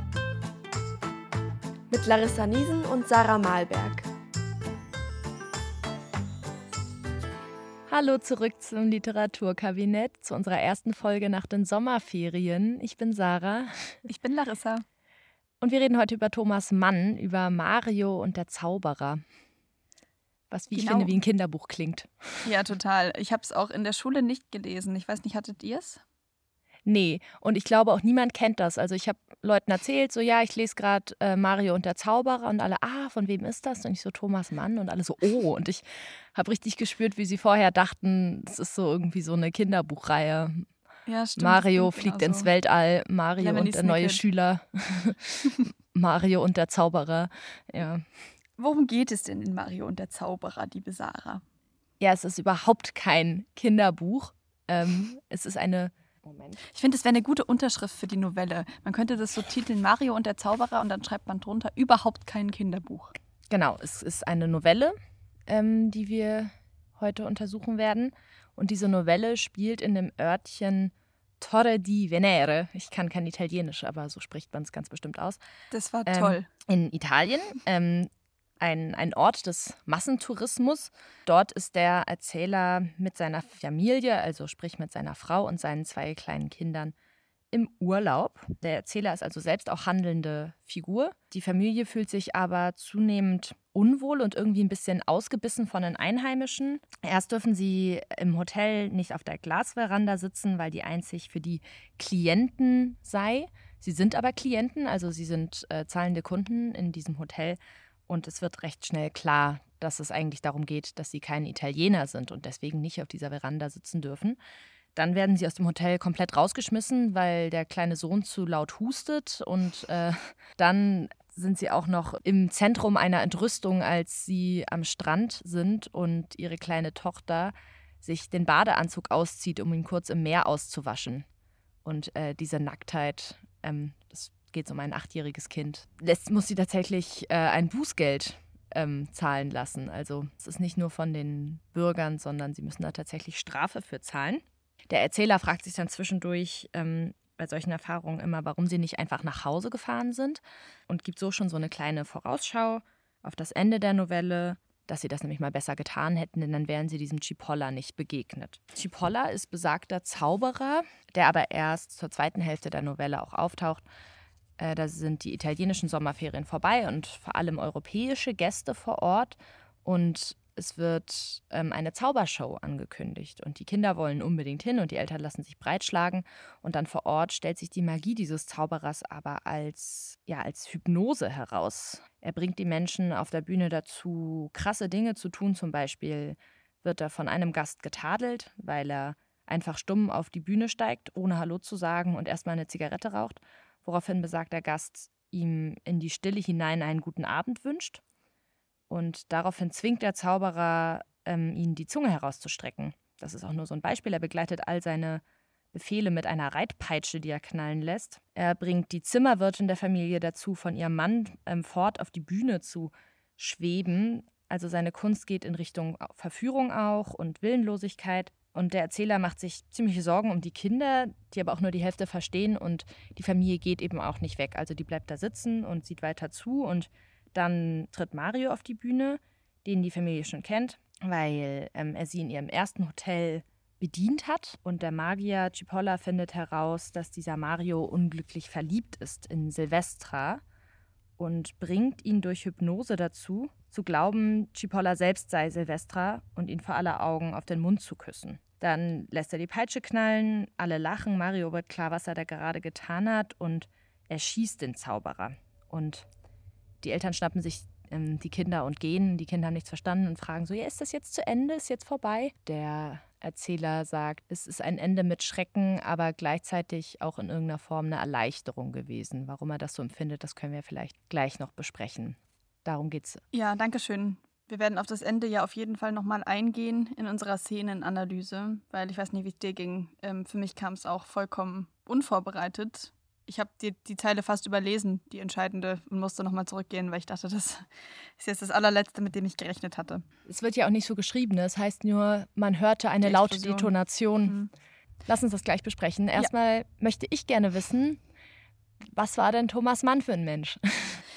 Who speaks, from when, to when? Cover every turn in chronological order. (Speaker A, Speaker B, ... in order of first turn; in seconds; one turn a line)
Speaker A: 1.9-4.1
Speaker B: 7.9-14.0
Speaker C: 14.1-14.8
Speaker B: 15.6-19.2
Speaker B: 20.5-22.5
Speaker C: 20.7-21.1
Speaker C: 22.4-26.0
Speaker B: 26.9-40.6
Speaker C: 41.1-42.5
Speaker B: 41.4-48.0
Speaker C: 43.4-44.2
Speaker C: 48.6-51.4
Speaker B: 52.0-56.6
Speaker C: 56.7-63.1
Speaker B: 63.5-64.9
Speaker B: 65.5-75.4
Speaker C: 75.7-76.5
Speaker B: 76.0-86.9
Speaker B: 87.5-114.4
Speaker B: 114.9-131.2
Speaker B: 131.8-163.8
Speaker B: 164.6-198.0
Speaker B: 198.9-205.2
Speaker B: 205.7-240.4
Speaker B: 241.2-256.1
Speaker B: 256.8-273.2
Speaker C: 273.3-290.0
Speaker B: 290.2-294.4
Speaker C: 293.0-293.7
Speaker B: 295.1-298.0
Speaker B: 298.8-301.0